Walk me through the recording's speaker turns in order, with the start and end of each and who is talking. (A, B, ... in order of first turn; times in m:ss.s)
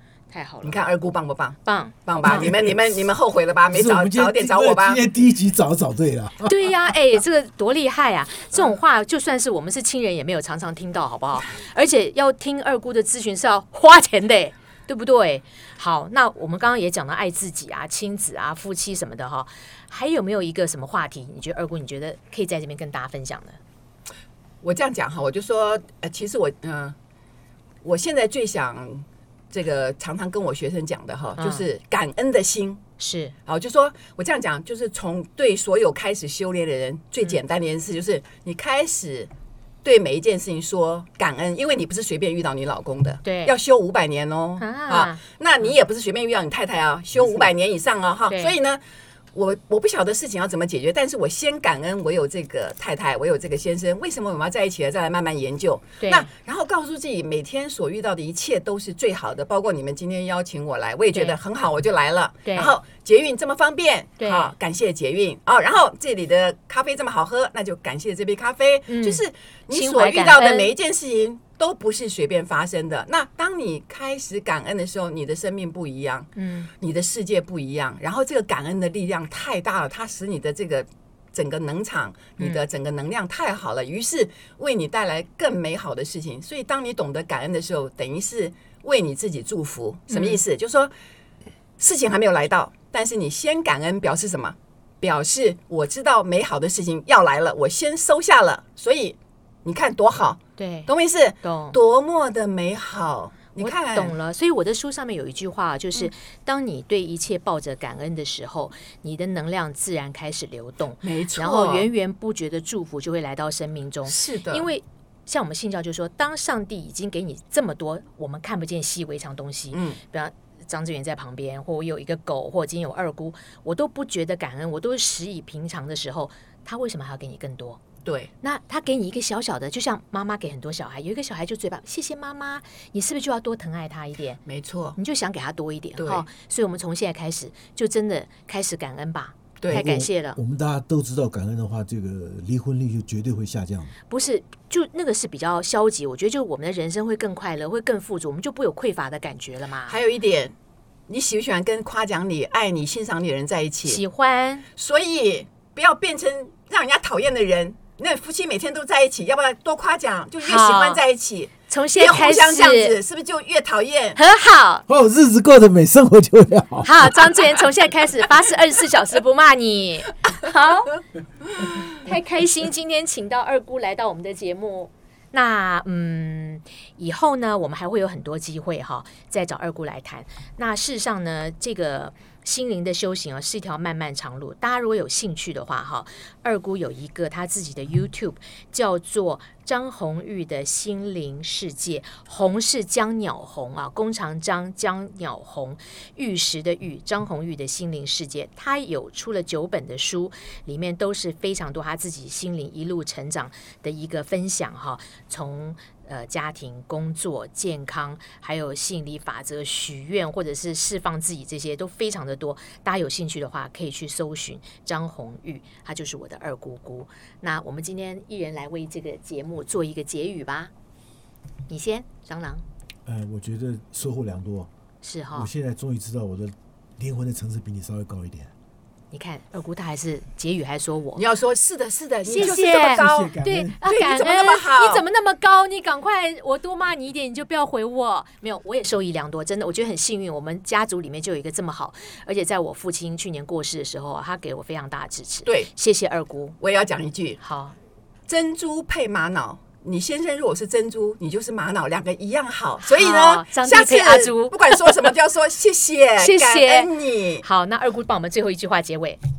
0:00.3-0:00.8 A
0:00.6-0:05.0 B
0:01.6-0:02.5 A
0:03.7-0:06.7 C
0:06.4-0:23.6 A
0:24.6-0:27.0 B
0:27.8-0:32.8 B
0:31.4-0:31.6 A
0:33.0-0:33.3 A
0:33.5-0:39.3 B
0:39.8-0:48.8 B
0:43.2-0:43.5 A
0:44.6-0:45.2 A
0:49.3-1:30.9 B
0:56.0-0:56.3 A
1:01.1-1:01.4 A
1:02.4-1:02.7 A
1:04.2-1:04.5 A
1:08.9-1:10.7 A
1:16.4-1:16.7 A
1:30.1-1:30.4 A
1:31.8-1:44.2 B
1:40.6-1:40.9 A
1:41.4-1:41.8 A
1:43.6-2:07.8 A
1:51.0-1:51.9 B
1:54.1-1:54.7 B
1:59.7-2:00.0 B
2:08.0-2:08.3 B
2:08.4-2:14.4 A
2:14.5-2:15.0 B
2:15.0-2:20.4 A
2:16.0-2:16.2 B
2:19.6-2:19.9 B
2:19.7-2:23.9 C
2:24.1-2:30.0 A
2:29.9-2:30.5 B
2:31.1-2:34.0 B
2:33.9-2:34.7 A
2:34.8-2:44.2 B
2:40.4-2:41.0 A
2:41.7-2:43.0 A
2:44.2-2:44.8 A
2:44.9-2:47.3 C
2:46.8-2:50.9 A
2:52.0-3:40.7 A
3:41.7-3:42.6 A
3:43.0-3:44.7 C
3:45.0-3:45.5 A
3:45.3-3:48.5 C
3:49.1-3:51.2 A
3:51.2-3:55.0 B
3:52.3-4:06.6 A
3:52.3-3:53.7 C
4:06.6-4:07.4 B
4:07.4-4:07.8 A
4:08.3-4:17.4 B
4:12.8-4:14.9 A
4:16.2-4:19.2 A